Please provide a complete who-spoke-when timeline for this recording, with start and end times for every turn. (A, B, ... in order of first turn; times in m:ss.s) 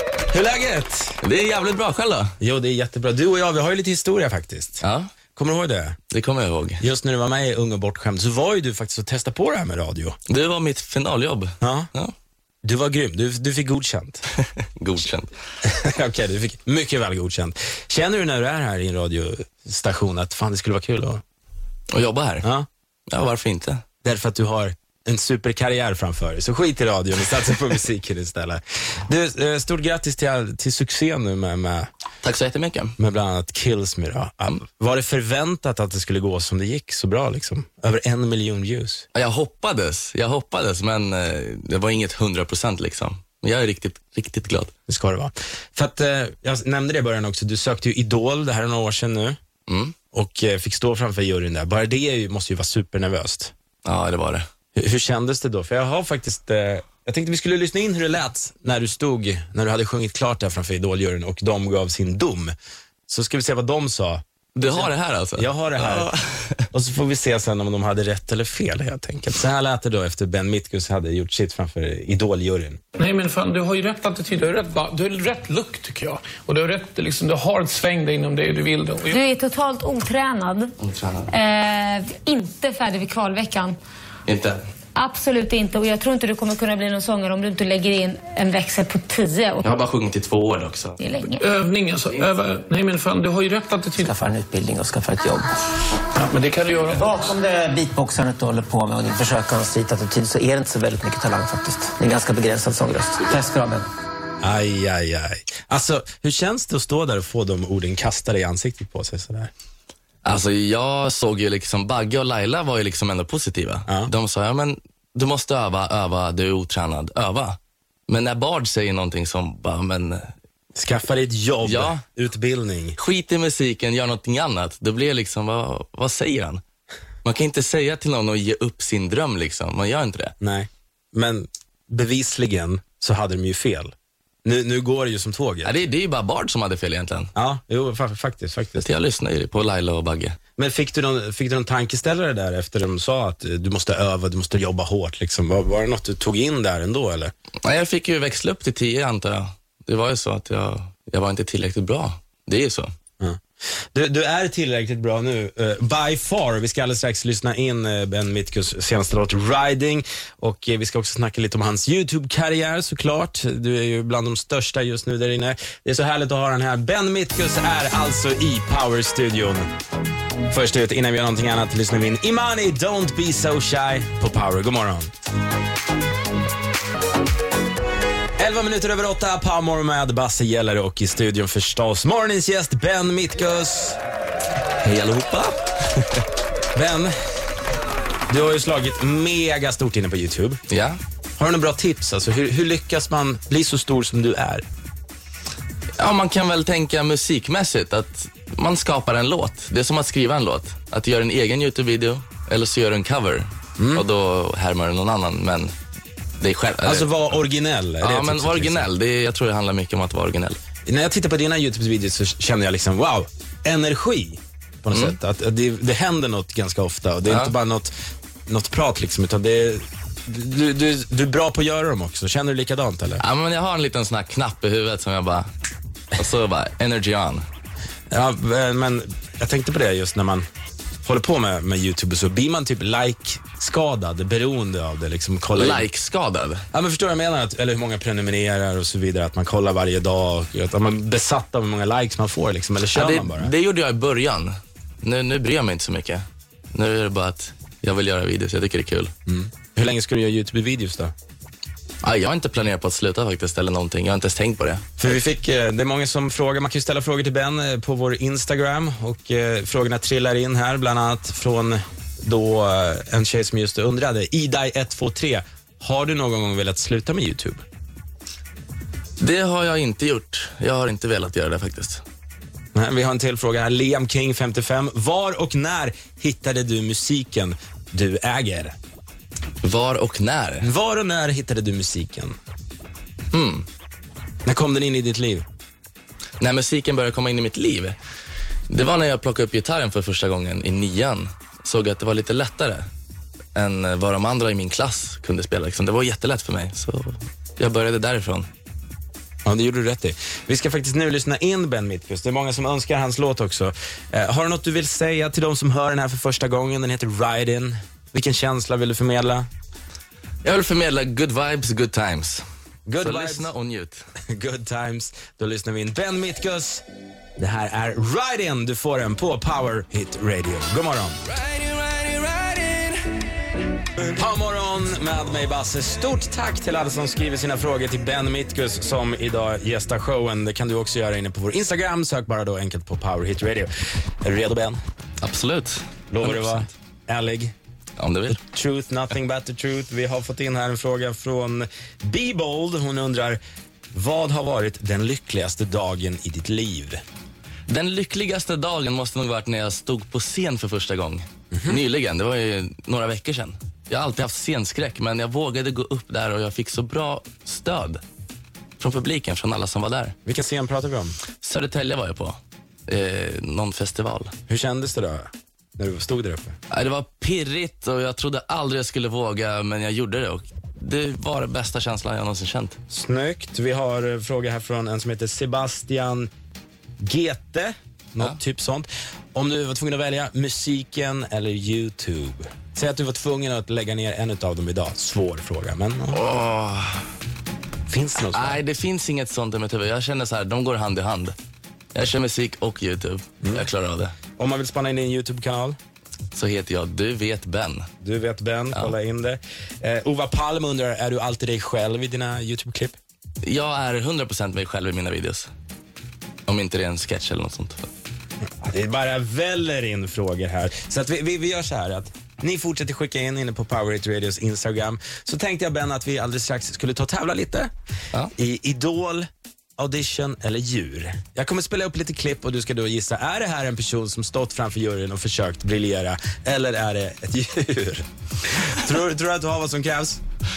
0:00.3-0:01.2 A
0:01.2-0:02.3 B
0:02.4-0:04.8 A
0:04.8-0:05.1 B
0:05.4-0:06.0 A
0:06.1-0:06.8 B
0:06.8-0:10.2 A
0:10.3-0:12.1 B
0:11.6-0:11.9 A
0:12.6-0:14.2 A
0:14.8-0:15.3 B
0:15.6-0:21.2 A
0:21.9-0:22.4 B
0:22.4-0:22.7 A
0:23.1-0:23.8 B
0:24.0-0:31.9 A
0:32.2-0:33.0 B
0:33.0-0:39.0 A
0:39.1-0:44.7 B
0:44.9-0:49.4 A
0:49.7-0:49.9 B
0:50.1-0:53.5 A
0:53.8-0:54.4 B
0:54.7-1:02.5 A
1:03.1-1:06.1 A
1:04.6-1:06.6 B
1:06.7-1:12.8 A
1:13.0-1:19.0 C
1:19.1-1:20.7 D
1:20.8-1:21.3 B
1:21.3-1:23.8 D
1:24.3-1:24.6 B
1:24.9-1:29.6 D
1:29.6-1:31.0 B
1:31.0-1:31.4 D
1:31.5-1:34.0 C
1:34.0-1:35.5 E
1:36.2-1:37.2 C
1:37.0-1:43.9 E
1:44.4-1:49.5 A
1:50.2-2:00.3 B
2:00.8-2:03.0 A
2:01.6-2:02.0 B
2:03.0-2:06.6 B
2:07.2-2:10.3 B
2:10.4-2:13.9 A
2:14.4-2:15.8 A
2:15.6-2:17.3 B
2:17.3-2:18.8 A
2:18.8-2:20.4 B
2:20.6-2:27.3 A
2:27.6-2:32.9 B
2:33.9-2:49.7 A
2:50.5-2:55.1 A
2:58.4-3:04.0 A
3:04.8-3:05.6 B
3:06.7-3:07.1 A
3:08.3-3:10.6 A
3:10.7-3:11.0 B
3:11.4-3:14.6 A
3:16.0-3:25.7 B
3:23.8-3:24.0 A
3:26.4-3:27.4 B
3:26.8-3:28.9 A
3:28.0-3:30.6 B
3:30.8-3:37.9 A
3:34.9-3:35.2 B
3:37.2-3:37.5 B
3:38.5-3:43.2 A
3:43.2-3:45.5 B
3:46.2-3:47.4 B
3:48.1-3:50.4 A
3:51.0-3:55.8 A
3:55.5-3:56.6 B
3:56.7-4:03.5 A
4:02.9-4:09.1 B
4:09.3-4:11.1 A
4:12.0-4:15.0 B
4:15.0-4:27.6 A
4:29.2-4:32.0 B
4:32.7-4:38.8 A
4:39.6-4:40.7 B
4:40.6-4:42.4 A
4:43.3-4:43.7 B
4:44.4-4:45.4 A
4:46.4-4:48.0 B
4:48.7-4:52.9 B
4:53.5-4:58.5 B
4:59.4-5:09.5 A
5:10.4-5:12.4 B
5:12.9-5:13.5 A
5:13.0-5:14.0 B
5:14.3-5:16.8 A
5:17.4-5:21.2 A
5:21.2-5:23.0 B
5:24.2-5:33.7 A
5:34.2-5:34.8 A
5:35.2-5:36.7 B
5:36.1-5:37.5 A
5:38.0-5:38.4 B
5:38.3-5:43.4 A
5:43.9-5:47.0 A
5:47.7-5:58.0 B
5:51.5-5:51.8 A
5:58.8-6:00.1 B
6:00.2-6:01.2 A
6:01.4-6:04.3 B
6:04.5-6:06.6 A
6:06.7-6:12.8 B
6:12.9-6:16.3 A
6:17.0-6:26.2 A
6:26.1-6:27.0 B
6:27.9-6:28.6 A
6:28.3-6:31.4 B
6:31.9-6:34.2 B
6:34.4-6:35.8 A
6:36.3-6:37.9 B
6:38.0-6:43.0 A
6:43.4-6:45.5 B
6:46.5-6:47.8 B
6:48.6-6:57.7 A
6:58.4-6:59.3 A
6:59.8-7:10.2 A